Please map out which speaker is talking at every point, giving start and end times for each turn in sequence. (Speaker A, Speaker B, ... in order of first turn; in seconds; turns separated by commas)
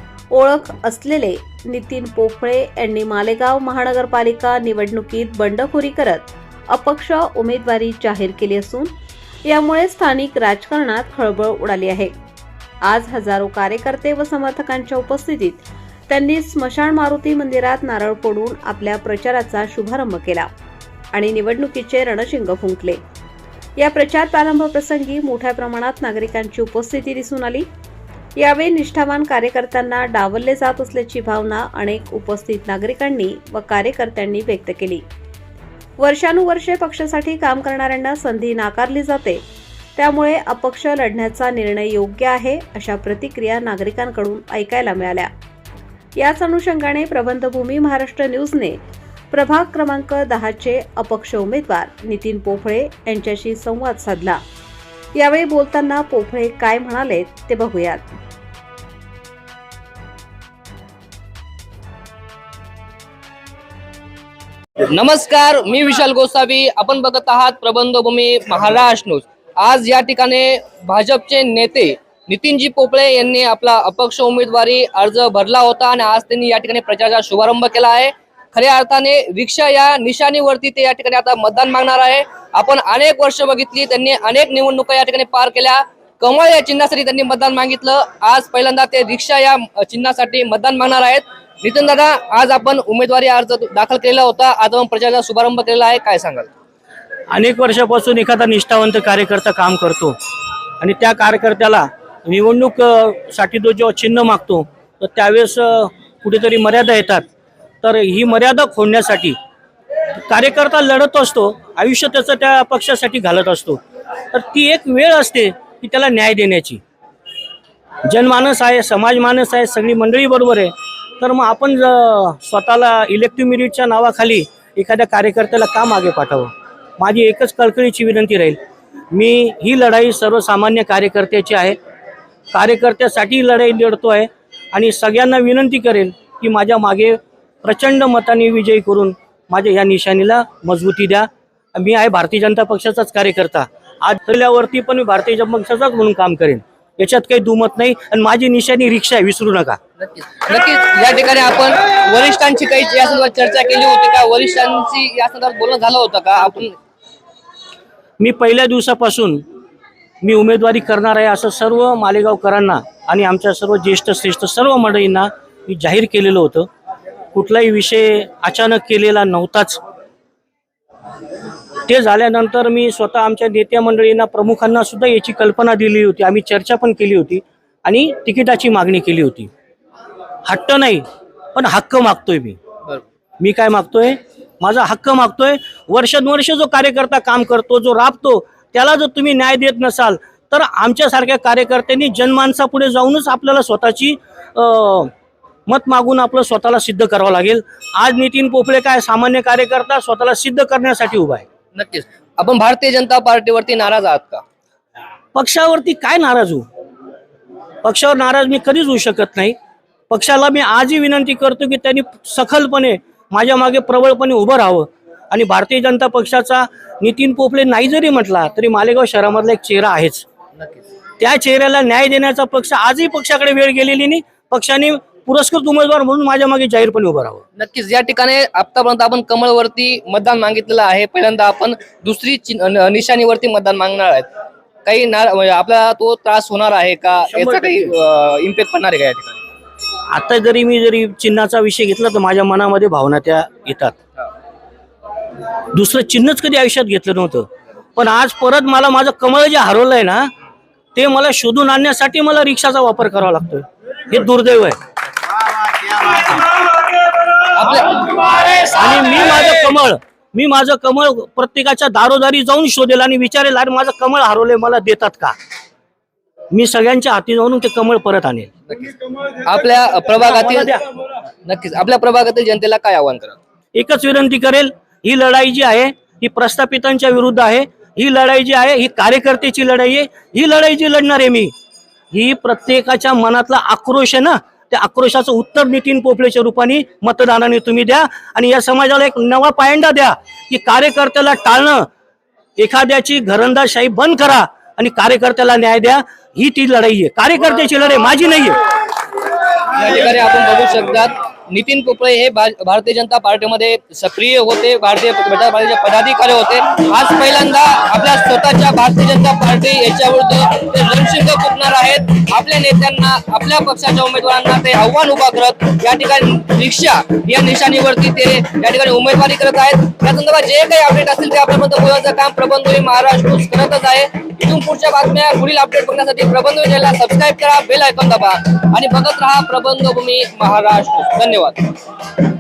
Speaker A: 0.3-8.9, Speaker A: 9.5-12.1, Speaker A: 12.8-20.5, Speaker A: 21.1-23.0, Speaker A: 23.8-27.7, Speaker A: 28.4-35.0, Speaker A: 36.0-39.4, Speaker A: 40.0-45.3, Speaker A: 46.2-48.8, Speaker A: 49.3-54.4, Speaker A: 55.1-58.1, Speaker B: 64.9-96.5, Speaker C: 97.3-100.2, Speaker C: 100.8-107.3, Speaker C: 107.8-109.4, Speaker C: 110.3-113.8, Speaker C: 114.3-116.8, Speaker C: 118.1-128.6, Speaker C: 129.1-131.8, Speaker C: 132.5-149.8, Speaker B: 150.0-156.8, Speaker C: 158.2-159.4, Speaker C: 160.2-166.7, Speaker C: 167.3-169.8, Speaker C: 171.9-179.5, Speaker C: 180.5-182.6, Speaker C: 183.4-195.1, Speaker C: 195.7-201.4, Speaker B: 201.8-204.4, Speaker C: 205.3-206.7, Speaker C: 207.8-209.6, Speaker C: 210.1-220.3, Speaker B: 220.6-220.8, Speaker C: 221.2-227.4, Speaker B: 227.6-234.3, Speaker B: 234.8-239.4, Speaker C: 237.3-237.9, Speaker C: 240.1-244.0, Speaker C: 245.7-250.3, Speaker C: 250.9-254.8, Speaker C: 255.7-256.5, Speaker B: 257.5-258.6, Speaker C: 258.7-265.4, Speaker C: 266.5-268.5, Speaker B: 268.7-270.8, Speaker C: 270.2-270.8, Speaker B: 271.4-273.4, Speaker C: 273.8-281.5, Speaker C: 282.1-291.9, Speaker C: 292.6-298.6, Speaker B: 299.7-331.7